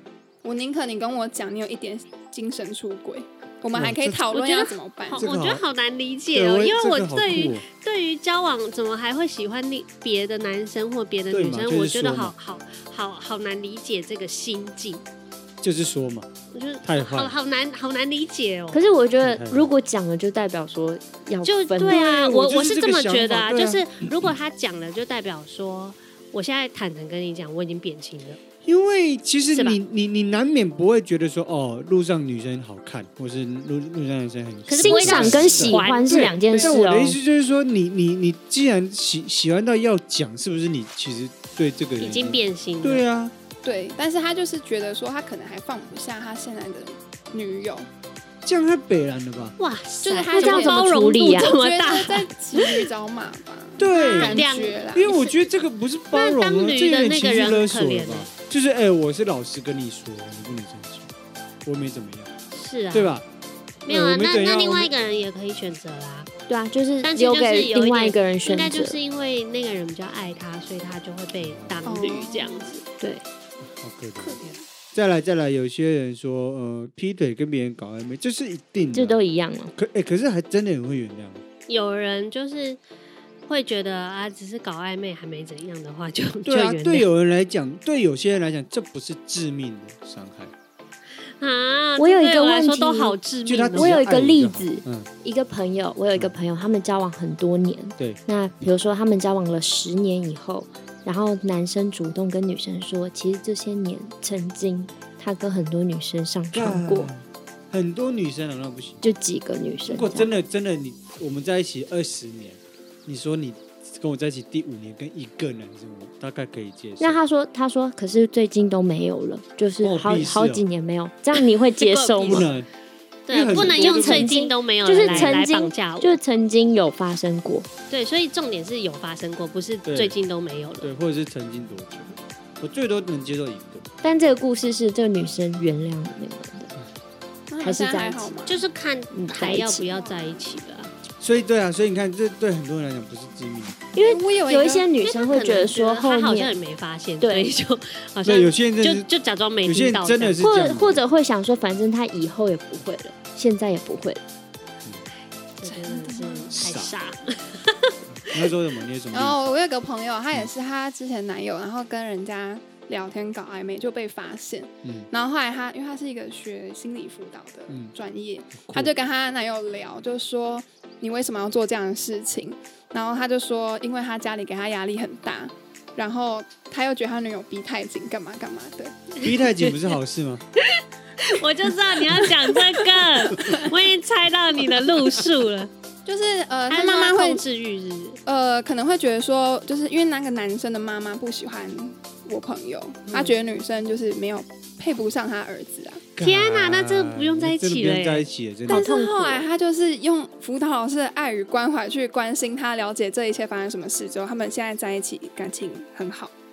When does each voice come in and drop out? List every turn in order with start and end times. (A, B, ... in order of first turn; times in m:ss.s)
0:00.4-0:05.3 A
0:03.7-0:04.3 B
0:04.3-0:15.0 C
0:05.2-0:05.6 B
0:06.3-0:07.6 B
0:11.3-0:12.3 B
0:15.6-0:16.3 B
0:16.5-0:18.8 C
0:16.8-0:17.3 B
0:18.7-0:22.0 D
0:19.2-0:19.7 B
0:21.4-0:28.4 C
0:21.8-0:24.3 B
0:28.6-0:43.3 B
0:29.5-0:29.8 C
0:34.7-0:36.3 C
0:34.8-0:37.2 D
0:42.0-0:43.0 C
0:43.6-0:47.9 A
0:48.4-0:49.6 B
0:49.6-0:52.8 C
0:50.0-0:55.2 A
0:50.3-0:51.6 D
0:53.8-1:01.1 B
0:53.9-0:55.3 C
0:56.1-0:58.3 C
1:01.6-1:02.3 B
1:02.5-1:03.2 C
1:02.9-1:03.2 B
1:03.9-1:04.9 B
1:03.9-1:06.3 C
1:06.5-1:09.0 D
1:07.0-1:12.8 C
1:11.4-1:11.9 B
1:11.9-1:12.8 A
1:13.6-1:19.2 B
1:14.2-1:14.6 A
1:18.9-1:19.7 D
1:19.8-1:21.4 B
1:21.7-1:22.8 C
1:23.5-1:27.1 C
1:26.4-1:30.5 B
1:31.2-1:34.0 C
1:32.0-1:33.2 D
1:33.5-1:35.1 B
1:33.8-1:47.1 D
1:46.5-1:49.0 B
1:49.0-1:50.3 D
1:49.9-1:57.2 B
1:57.0-2:02.5 D
1:59.8-2:00.6 B
2:01.8-2:02.5 C
2:02.2-2:02.7 B
2:03.3-2:06.2 C
2:03.3-2:04.4 B
2:03.6-2:07.7 D
2:05.0-2:05.4 B
2:07.9-2:10.9 C
2:09.9-2:10.2 B
2:10.8-2:13.9 B
2:14.0-2:16.7 D
2:17.5-2:18.6 A
2:17.6-2:18.3 D
2:18.5-2:20.9 C
2:19.1-2:19.9 D
2:19.8-2:20.6 A
2:21.2-2:23.9 B
2:24.0-2:26.6 D
2:24.0-2:24.9 A
2:25.0-2:30.4 C
2:27.2-2:27.5 D
2:28.2-2:29.1 B
2:29.7-2:31.0 B
2:30.4-2:34.2 D
2:35.6-2:38.5 C
2:35.6-2:36.5 A
2:36.5-2:36.9 B
2:38.2-2:39.5 B
2:39.1-2:59.2 A
2:44.8-2:45.1 B
2:47.7-2:47.9 B
2:48.6-2:48.9 B
2:59.2-3:00.4 B
3:00.6-3:05.7 C
3:06.0-3:07.4 A
3:06.7-3:08.2 C
3:08.3-3:16.0 A
3:13.1-3:13.4 C
3:16.2-3:18.9 B
3:16.2-3:18.3 C
3:18.7-3:19.5 D
3:18.7-3:26.3 A